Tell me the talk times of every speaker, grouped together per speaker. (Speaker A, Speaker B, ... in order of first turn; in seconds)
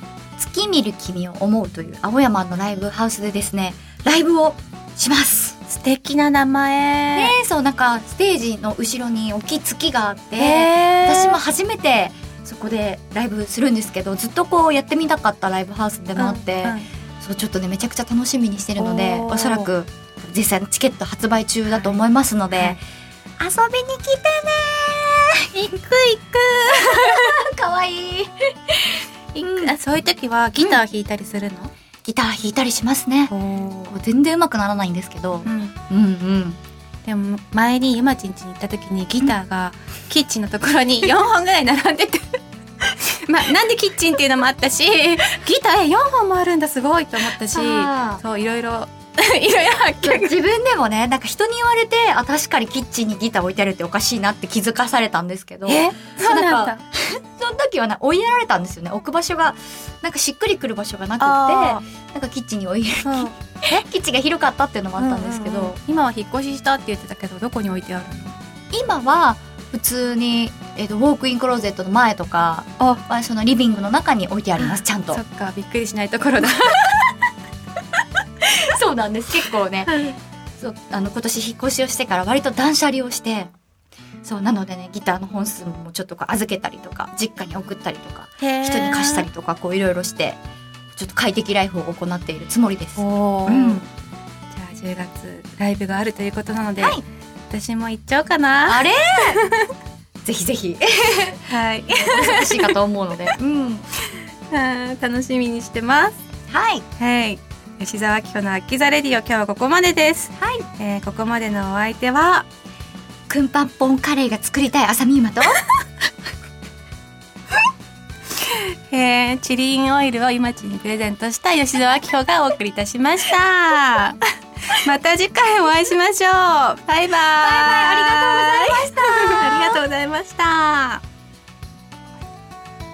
Speaker A: 0.4-5.6, 7.1-22.8, 23.4-25.7, 26.7-29.7, 32.0-33.3, 33.9-36.6, 47.5-48.2, 50.0-65.8, 68.7-75.2, 78.4-80.0, 80.6-83.5, 84.2-90.4, 90.9-93.8, 98.7-99.4, 100.2-103.9, 106.5-106.8, 113.3-115.6, 127.4-129.8
Speaker B: 5.7-7.4, 10.4-11.4, 16.2-16.9, 18.8-19.7, 25.5-27.3, 29.3-31.7, 33.3-33.9, 35.5-35.8, 37.1-50.4, 55.7-56.8, 61.2-61.8, 63.0-63.8, 65.0-68.4, 74.6-77.2, 79.9-80.2, 88.4-89.3, 93.0-93.9, 94.5-99.7, 101.5-102.8, 104.0-106.2, 107.0-112.5, 118.4-124.2, 124.7-131.0